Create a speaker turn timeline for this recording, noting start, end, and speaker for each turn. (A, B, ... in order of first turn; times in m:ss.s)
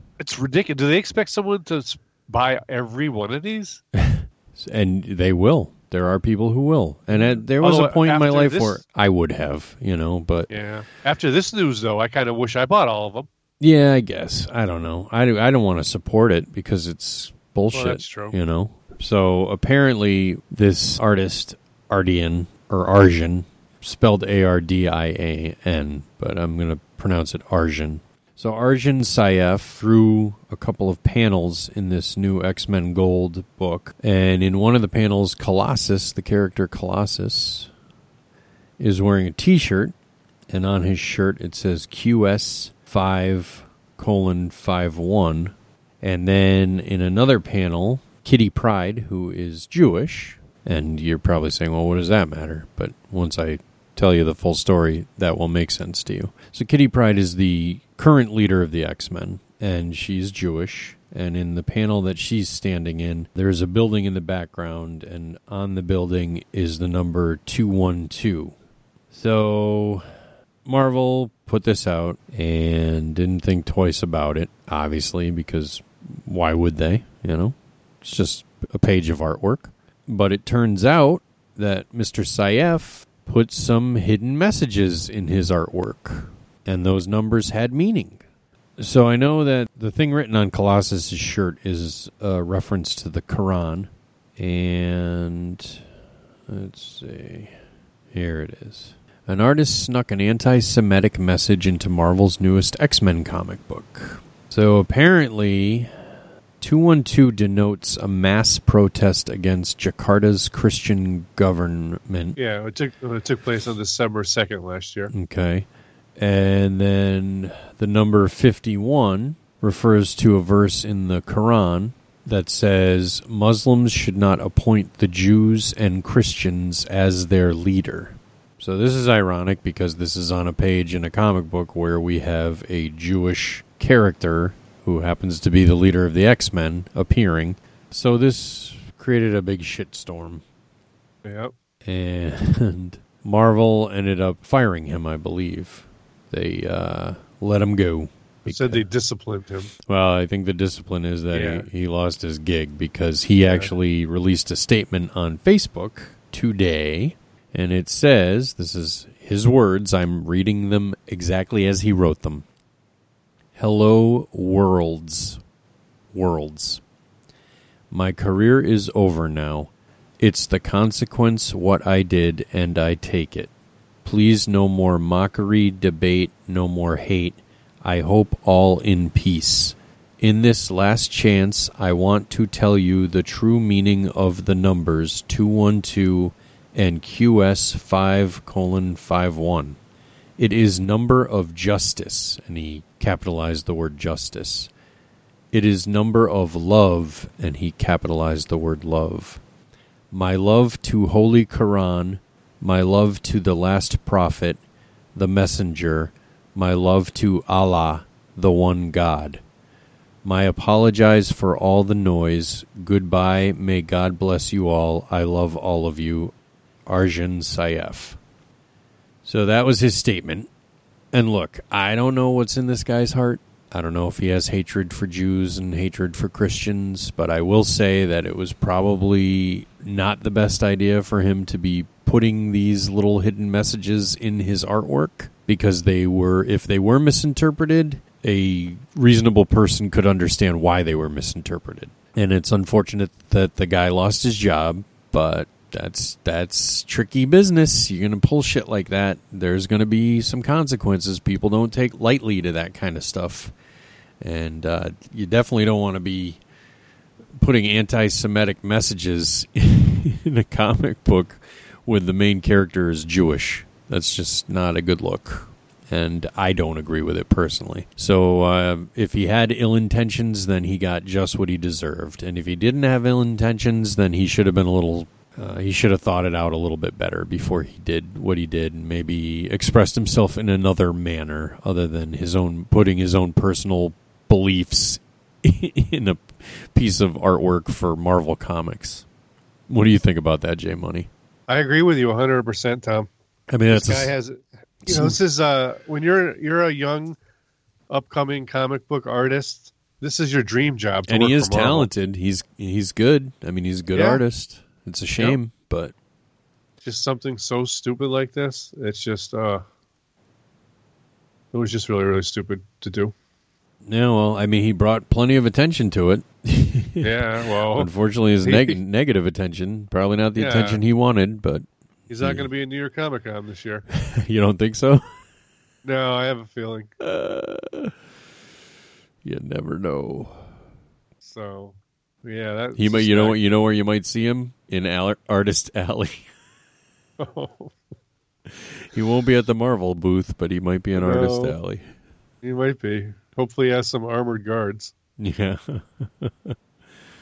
0:00.2-0:03.8 A
0:03.9-0:10.5 B
0:07.2-0:08.8 A
0:10.5-0:13.3 A
0:13.6-0:37.7 B
0:17.7-0:18.4 A
0:38.8-0:39.9 B
0:40.5-1:08.5 B
1:09.1-1:10.0 B
1:10.6-1:28.2 B
1:28.8-1:35.8 B
1:36.5-1:37.5 B
1:38.1-1:45.9 B
1:46.6-1:52.4 B
1:52.4-1:55.1 A
1:55.1-1:55.7 B
1:56.2-2:20.4 B
2:21.2-2:21.5 A
2:21.8-2:28.8 B
2:28.4-2:29.7 A
2:29.8-2:42.4 B
2:31.3-2:31.7 A
2:43.5-2:45.4 B
2:46.1-2:46.8 B
2:47.9-2:53.5 B
2:54.0-3:09.8 B
3:10.4-3:14.7 B
3:15.5-3:19.4 B
3:20.1-3:24.6 B
3:25.1-3:29.4 B
3:30.2-3:36.3 B
3:36.9-3:38.2 B
3:39.2-3:40.5 B
3:41.1-4:13.5 B
4:14.2-4:16.4 B
4:17.4-4:49.0 B
4:49.7-4:51.1 B
4:51.5-4:53.1 A
4:53.5-4:54.1 B
4:53.7-4:57.2 A
4:54.8-4:55.2 B
4:57.9-5:01.9 A
5:01.1-5:05.9 B
5:03.9-5:04.2 A
5:06.8-5:09.6 A
5:11.5-5:13.1 A
5:13.8-5:21.6 B
5:17.0-5:17.9 A
5:18.4-5:18.8 A
5:20.4-5:20.8 A
5:22.1-5:23.8 A
5:22.2-5:22.5 B
5:23.9-5:25.0 B
5:25.8-5:26.9 A
5:27.0-5:27.9 B
5:29.2-5:30.4 B
5:31.2-5:33.4 A
5:32.8-5:36.3 B
5:37.2-5:37.8 A
5:38.5-5:41.8 B
5:41.0-5:41.6 A
5:42.4-5:44.9 A
5:45.2-5:46.5 B